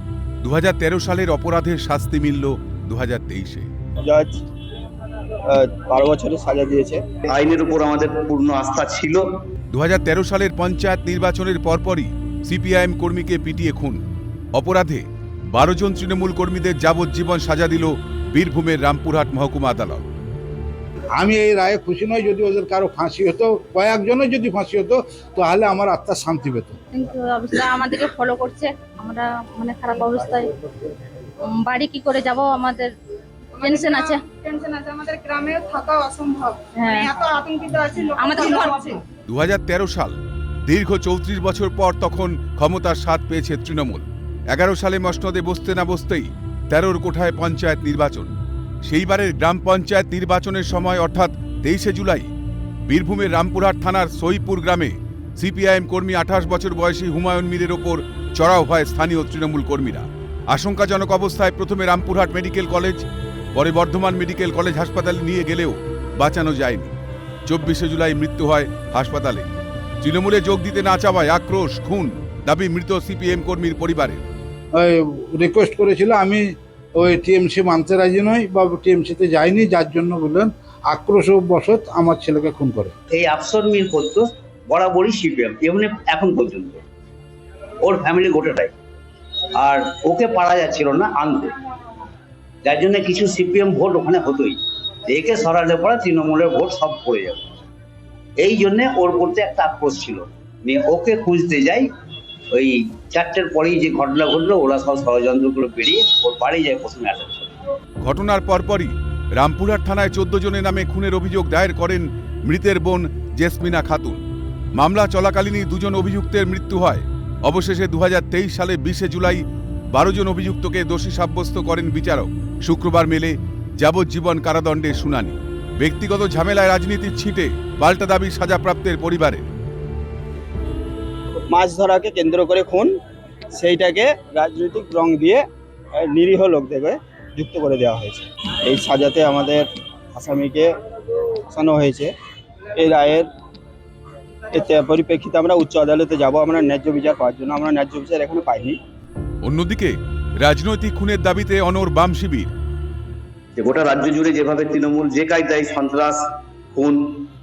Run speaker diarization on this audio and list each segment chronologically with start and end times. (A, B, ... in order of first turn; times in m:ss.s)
0:00.4-0:03.7 A
0:04.0-0:04.4 B
0:05.4-0:07.0 B
0:07.3-0:09.2 C
0:09.7-0:14.0 A
0:14.5-0:20.0 A
0:21.2-0:26.8 D
0:26.9-0:30.5 E
0:31.5-0:32.9 E
0:33.6-0:34.2 E
0:33.6-0:39.0 F
0:36.8-0:37.4 E
0:38.1-0:38.9 E
0:39.3-0:52.3 A
0:52.9-1:06.9 A
1:07.5-1:09.5 A
1:10.0-1:14.2 A
1:14.7-1:16.4 D
1:17.0-1:22.9 D
1:23.1-1:26.8 C
1:27.8-1:28.7 C
1:29.6-1:31.6 C
1:32.6-1:37.4 C
1:38.4-1:41.9 C
1:42.5-1:47.5 C
1:48.0-1:54.2 A
1:54.8-2:09.5 A
2:11.5-2:13.0 B
2:13.5-2:20.7 B
2:21.5-2:22.1 B
2:22.8-2:23.3 B
2:24.5-2:28.8 B
2:29.4-2:32.5 A
2:33.6-2:36.2 C
2:36.7-2:37.0 C